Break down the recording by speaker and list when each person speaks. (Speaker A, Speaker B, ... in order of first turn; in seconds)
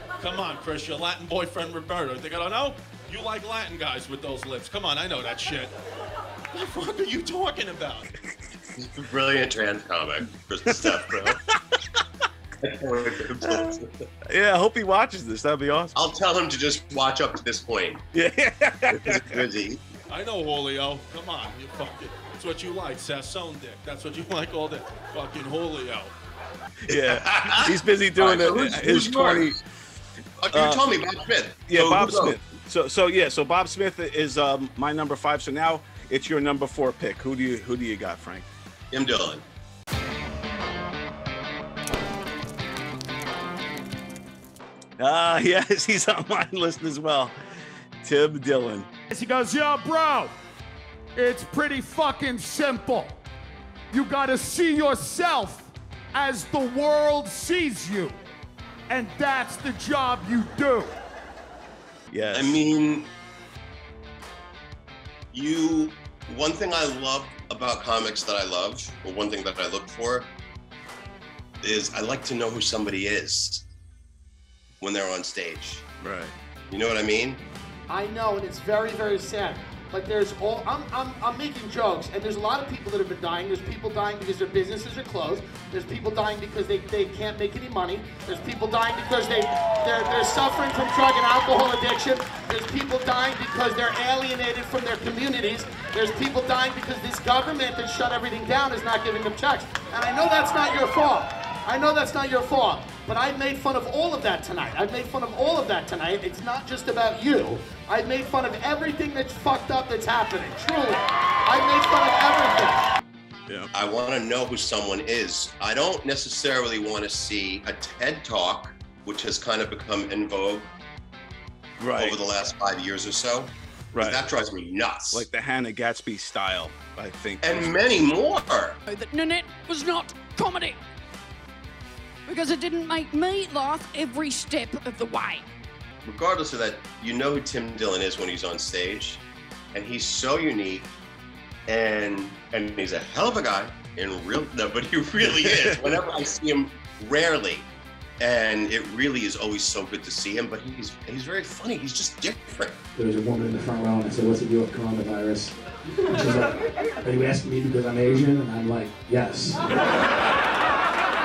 Speaker A: 0.2-5.7, 6.5-8.1, 20.1-26.1
Speaker B: 8.8-11.4, 12.6-14.1, 16.0-18.0, 18.9-19.8, 26.9-29.6, 30.4-32.4, 38.9-39.4, 62.3-63.1, 65.3-70.3, 71.6-73.7, 74.8-75.8, 76.7-77.4, 113.7-120.7, 122.0-125.3, 127.4-128.8, 136.1-139.2, 139.7-140.9, 141.7-147.7, 148.2-152.8
Speaker C: 13.4-13.8, 14.3-16.0, 18.1-19.4, 26.9-29.6, 30.5-30.8, 31.7-38.5, 45.0-47.3, 48.0-48.9, 62.1-62.6, 76.0-76.3, 121.8-122.2, 123.9-124.2, 125.1-127.8, 145.3-146.0
Speaker D: 49.1-50.3, 51.2-53.2, 53.9-58.2, 58.9-60.9
Speaker E: 77.9-112.8
Speaker F: 128.9-130.8, 132.3-135.4
Speaker G: 153.0-155.5, 157.7-159.3